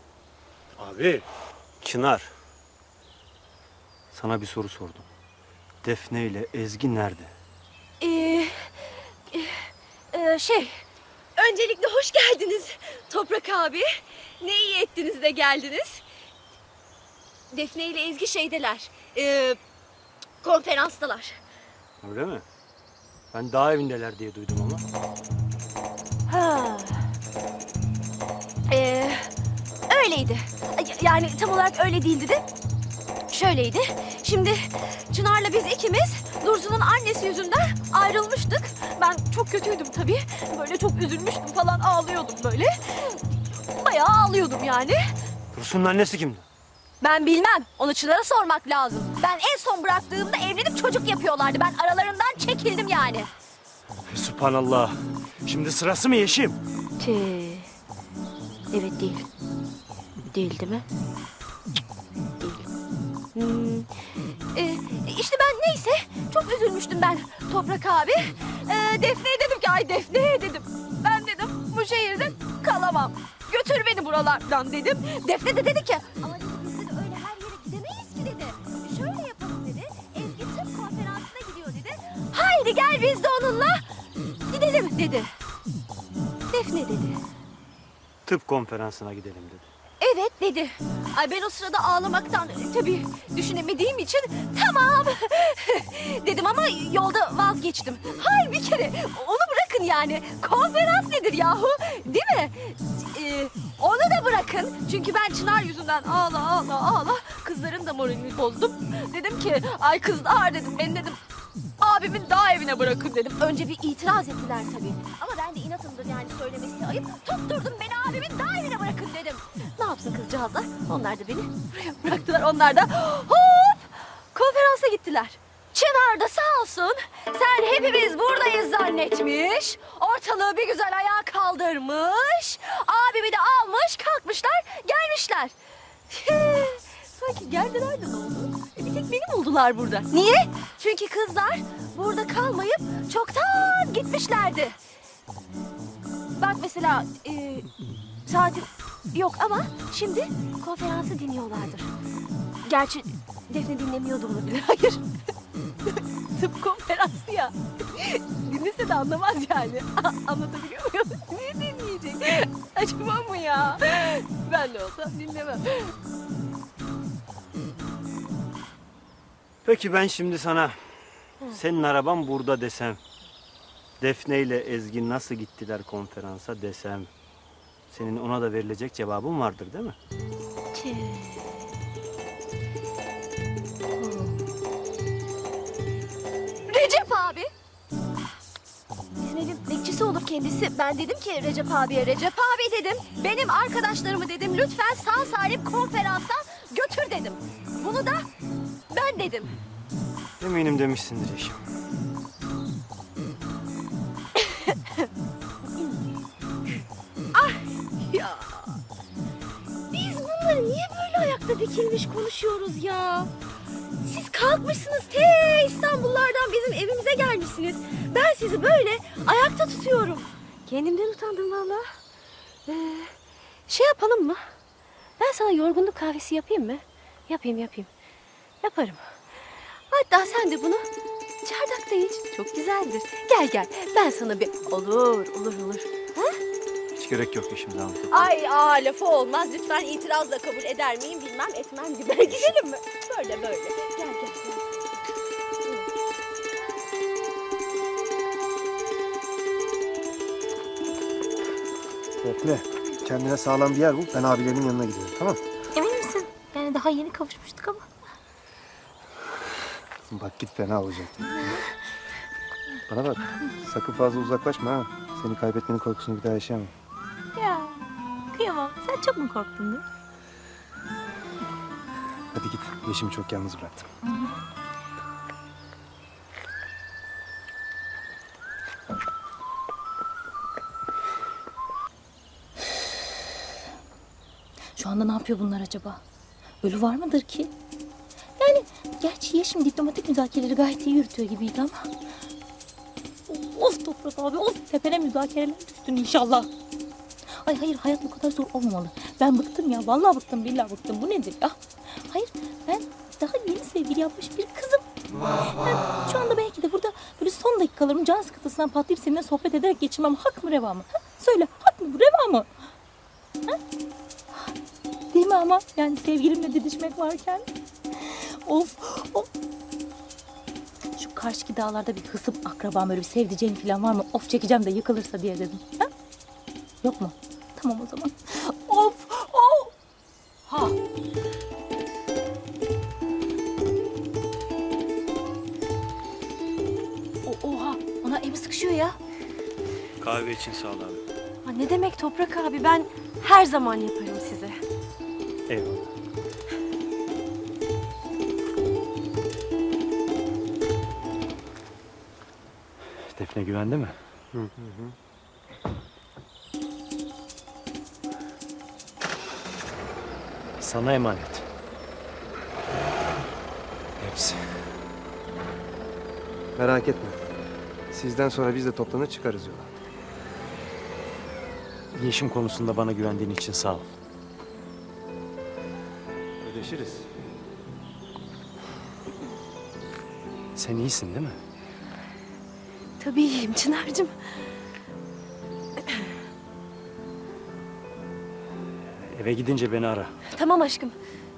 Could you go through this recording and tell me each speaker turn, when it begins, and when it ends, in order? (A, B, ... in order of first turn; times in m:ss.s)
0:01.8-0:02.3 A
0:04.1-0:05.0 A
0:05.8-0:07.3 A
0:08.0-0:10.8 B
0:11.4-0:16.0 B
0:17.5-0:19.6 B
0:20.4-0:21.4 B
0:22.0-0:22.4 A
0:23.3-0:24.8 A
0:26.3-0:27.1 B
0:28.7-0:29.3 B
0:29.9-0:32.4 B
0:33.3-0:45.1 B
0:45.5-0:46.4 A
0:47.0-0:53.3 B
0:54.1-0:54.9 A
0:55.5-0:56.5 A
0:57.0-0:57.7 B
0:58.7-0:59.3 B
1:00.3-1:00.9 B
1:02.4-1:02.6 B
1:03.3-1:03.9 B
1:04.5-1:23.9 B
1:24.4-1:25.3 B
1:26.5-1:27.2 B
1:28.2-1:29.7 A
1:30.0-1:51.2 B
1:51.8-2:15.6 B
2:16.1-2:24.8 B
2:26.4-2:27.7 B
2:28.2-2:31.9 B
2:32.6-2:35.0 B
2:35.8-2:45.9 B
2:49.6-2:50.8 A
2:51.5-2:53.0 A
2:54.0-2:57.1 A
2:57.9-3:00.0 A
3:00.7-3:01.7 B
3:04.0-3:04.4 B
3:06.7-3:07.5 B
3:09.2-3:18.3 B
3:18.9-3:19.5 B
3:24.4-3:25.0 B
3:27.3-3:28.8 B
3:29.9-3:33.3 B
3:34.0-3:41.9 B
3:42.6-3:43.1 B
3:43.7-3:44.5 B
3:45.2-3:47.9 B
3:48.6-3:49.2 B
3:49.9-3:50.9 B
3:51.4-3:56.4 B
3:58.1-4:04.9 B
4:12.2-4:15.4 C
4:15.7-4:17.8 D
4:20.1-4:21.2 C
4:22.9-4:26.7 C
4:27.3-4:27.8 D
4:28.3-4:29.8 D
4:32.3-4:33.8 C
4:34.0-4:34.3 D
4:44.8-4:46.0 D
4:46.6-4:47.5 D
4:48.4-4:51.9 D
4:53.3-4:56.5 D
4:57.4-5:04.8 D
5:05.5-5:12.5 D
5:15.1-5:17.4 D
5:18.1-5:19.3 D
5:21.0-5:25.8 D
5:26.8-5:29.7 D
5:30.5-5:30.7 D
5:37.2-5:38.9 D
5:41.4-5:44.6 B
5:53.1-5:54.0 E
6:00.6-6:01.4 E
6:04.0-6:04.4 E
6:06.6-6:07.2 C
6:07.9-6:09.7 C
6:11.9-6:13.9 E
6:16.4-6:17.1 C
6:20.6-6:21.4 E
6:23.0-6:24.1 B
6:25.8-6:26.1 B
6:29.1-6:30.1 E
6:30.3-6:31.0 B